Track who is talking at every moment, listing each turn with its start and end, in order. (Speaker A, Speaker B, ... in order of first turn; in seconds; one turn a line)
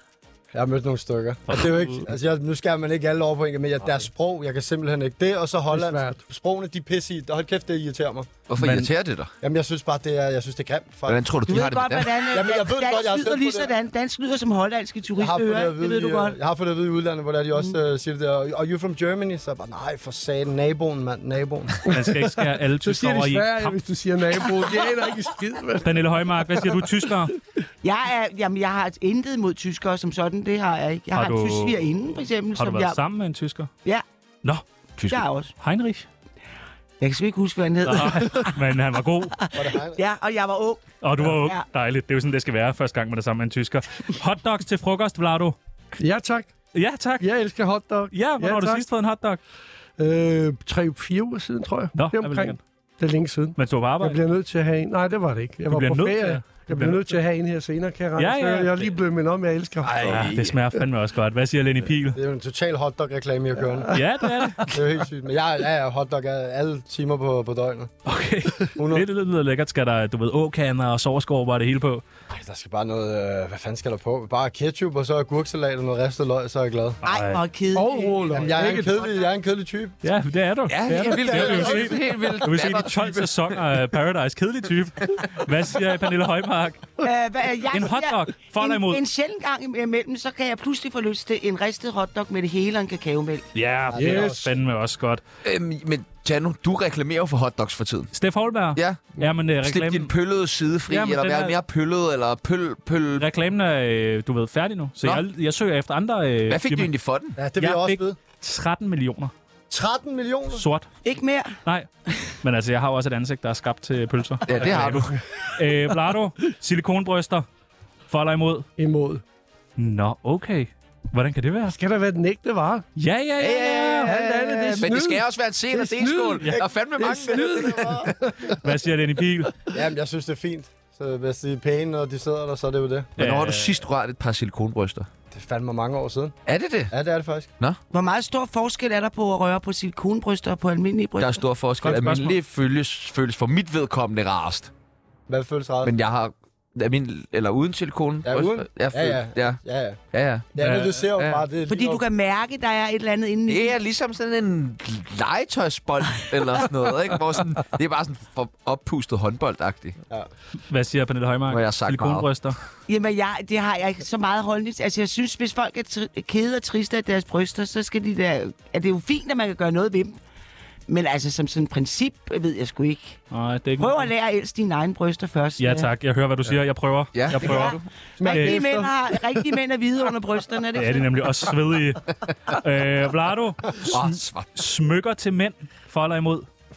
Speaker A: 0.5-8.3
Speaker B: 1.5-2.0
Speaker C: 5.7-6.2
Speaker D: 8.5-9.3
Speaker B: 8.6-8.9
Speaker A: 9.4-11.2
Speaker D: 11.1-12.1
Speaker E: 11.5-16.4
Speaker A: 12.3-13.7
Speaker A: 15.2-21.8
Speaker C: 21.9-27.1
Speaker B: 21.9-23.8
Speaker B: 25.8-27.3
Speaker E: 27.8-33.0
Speaker B: 31.1-31.9
Speaker B: 32.5-33.7
Speaker B: 34.4-36.0
Speaker E: 35.1-35.5
Speaker E: 37.0-38.6
Speaker B: 37.8-39.5
Speaker E: 39.4-41.6
Speaker A: 39.5-40.0
Speaker B: 41.0-45.5
Speaker C: 46.0-46.5
Speaker B: 46.7-47.3
Speaker C: 47.2-48.8
Speaker B: 48.1-49.4
Speaker C: 50.0-60.3
Speaker B: 51.9-52.6
Speaker B: 53.6-54.2
Speaker B: 55.7-57.2
Speaker B: 58.2-58.9
Speaker D: 59.8-60.6
Speaker B: 60.1-62.2
Speaker A: 62.1-63.9
Speaker B: 63.9-64.8
Speaker A: 64.7-67.9
Speaker B: 68.0-72.0
Speaker A: 68.8-69.1
Speaker A: 72.3-77.0
Speaker E: 77.0-79.0
Speaker B: 77.1-77.4
Speaker C: 77.7-79.0
Speaker A: 78.3-80.0
Speaker B: 80.0-86.8
Speaker D: 80.7-83.6
Speaker A: 81.0-82.0
Speaker E: 87.0-93.4
Speaker B: 87.7-89.0
Speaker B: 93.5-95.2
Speaker A: 93.9-94.5
Speaker C: 93.9-94.5
Speaker D: 95.4-98.1
Speaker B: 98.1-100.1
Speaker D: 98.8-99.1
Speaker D: 99.6-103.3
Speaker B: 100.9-101.5
Speaker B: 103.2-106.9
Speaker D: 106.5-107.3
Speaker A: 107.4-108.2
Speaker B: 107.6-109.3
Speaker A: 109.7-110.6
Speaker B: 110.5-110.9
Speaker E: 111.0-111.6
Speaker B: 112.4-117.4
Speaker D: 114.5-115.2
Speaker B: 118.1-118.7
Speaker C: 118.8-119.2
Speaker B: 119.8-121.8
Speaker C: 121.7-122.8
Speaker B: 123.0-124.2
Speaker D: 123.4-128.0
Speaker C: 124.0-128.6
Speaker A: 126.5-128.1
Speaker B: 128.5-129.6
Speaker A: 129.7-133.1
Speaker B: 133.2-133.8
Speaker D: 133.2-135.1
Speaker A: 135.3-136.3
Speaker D: 136.4-136.9
Speaker A: 136.9-137.5
Speaker E: 137.9-141.4
Speaker D: 141.2-144.7
Speaker B: 141.8-142.3
Speaker A: 141.8-142.2
Speaker A: 145.3-145.9
Speaker D: 145.8-149.6
Speaker A: 148.2-150.0
Speaker D: 150.1-150.6
Speaker A: 150.5-152.0
Speaker B: 150.6-150.9
Speaker D: 151.1-151.4
Speaker E: 151.7-153.8
Speaker D: 153.5-160.0
Speaker B: 160.7-162.6
Speaker D: 161.5-162.3
Speaker E: 162.9-170.2
Speaker E: 170.9-173.2
Speaker B: 173.3-174.1
Speaker E: 173.8-175.9
Speaker B: 175.6-178.6
Speaker D: 177.1-177.9
Speaker E: 177.4-181.1
Speaker C: 178.2-178.9
Speaker B: 180.8-186.4
Speaker D: 183.8-184.5